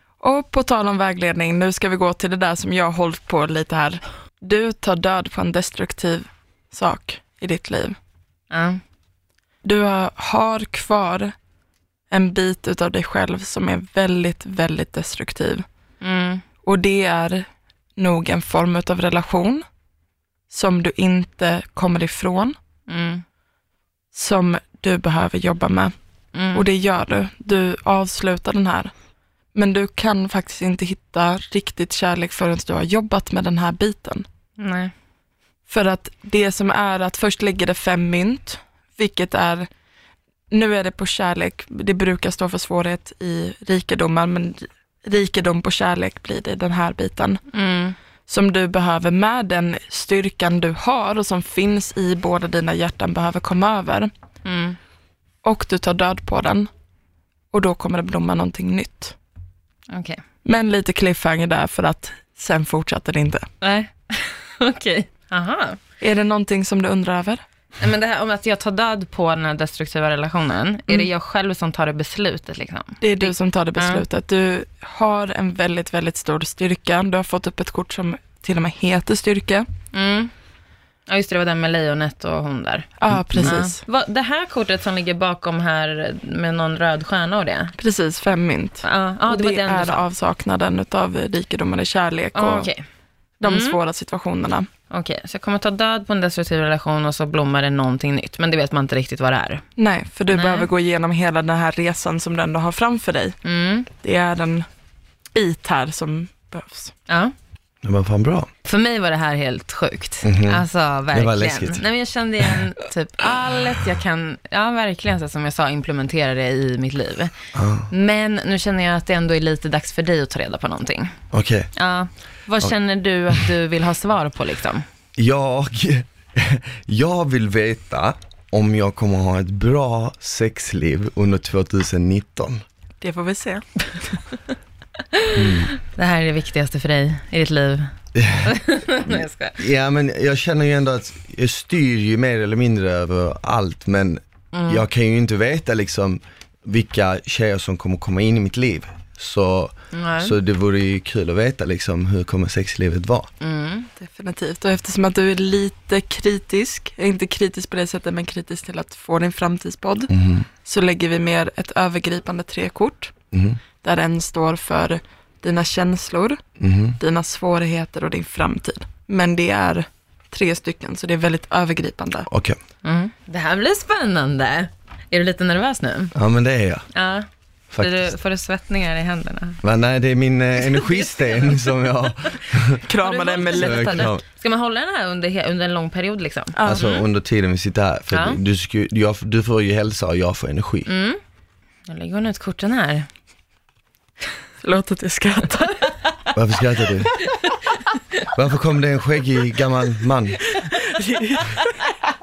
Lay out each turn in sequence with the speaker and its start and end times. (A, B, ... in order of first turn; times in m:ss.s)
0:00.2-0:08.0 A
0:08.5-0:08.8 B
0:09.6-0:11.3 A
0:12.1-0:15.6 A
0:16.0-0:16.4 B
0:16.6-0:17.5 A
0:18.0-0:19.6 A
0:20.5-0:22.6 A
0:22.9-0:23.2 B
0:24.1-0:25.9 A
0:26.3-0:26.6 B
0:26.5-0:28.9 A
0:29.6-0:34.2 A
0:34.6-0:34.9 B
0:35.7-0:39.7 A
0:40.5-0:47.4 A
0:47.5-0:48.0 B
0:48.3-0:54.1 A
0:54.4-0:54.8 B
0:55.4-0:56.7 A
0:57.5-0:59.2 A
0:59.9-1:00.2 B
1:00.4-1:03.5 A
1:03.6-1:05.8 B
1:06.0-1:07.4 A
1:07.8-1:14.0 B
1:13.0-1:19.7 A
1:19.9-1:20.3 B
1:21.1-1:27.7 B
1:23.0-1:23.8 A
1:23.1-1:23.5 C
1:27.8-1:32.7 A
1:28.8-1:30.0 B
1:32.4-1:32.8 B
1:33.4-1:34.7 A
1:33.4-1:33.8 B
1:34.9-1:39.6 B
1:39.8-1:43.4 A
1:40.3-1:40.7 B
1:43.4-1:43.9 B
1:44.0-1:44.7 A
1:45.4-1:46.9 A
1:47.1-1:47.3 B
1:47.8-1:48.5 C
1:48.6-1:57.3 B
1:50.2-1:51.8 C
1:57.5-1:57.9 C
1:57.9-2:01.2 B
2:01.3-2:01.7 C
2:01.8-2:04.8 B
2:05.2-2:12.6 C
2:13.0-2:13.6 A
2:15.1-2:19.6 B
2:15.4-2:15.7 C
2:18.1-2:33.3 C
2:24.5-2:24.8 B
2:29.9-2:30.3 B
2:33.4-2:33.9 B
2:34.0-2:40.1 A
2:40.1-2:40.5 C
2:40.6-2:43.1 A
2:43.3-2:43.6 C
2:43.8-2:46.4 A
2:46.6-2:47.0 C
2:47.0-2:52.3 A
2:52.3-2:52.6 C
2:52.8-2:56.2 B
2:56.2-2:56.9 C
2:56.9-2:57.3 B
2:57.7-2:58.1 C
2:57.8-2:59.6 B
2:59.6-3:02.8 C
3:00.6-3:07.0 B
3:02.8-3:04.1 A
3:03.5-3:04.2 C
3:06.6-3:07.0 A
3:06.6-3:10.9 C
3:08.1-3:08.4 B
3:10.9-3:11.2 B
3:11.9-3:13.1 B
3:14.6-3:15.8 A
3:16.3-3:17.1 C
3:17.1-3:17.8 B
3:18.3-3:20.5 C
3:20.7-3:21.6 A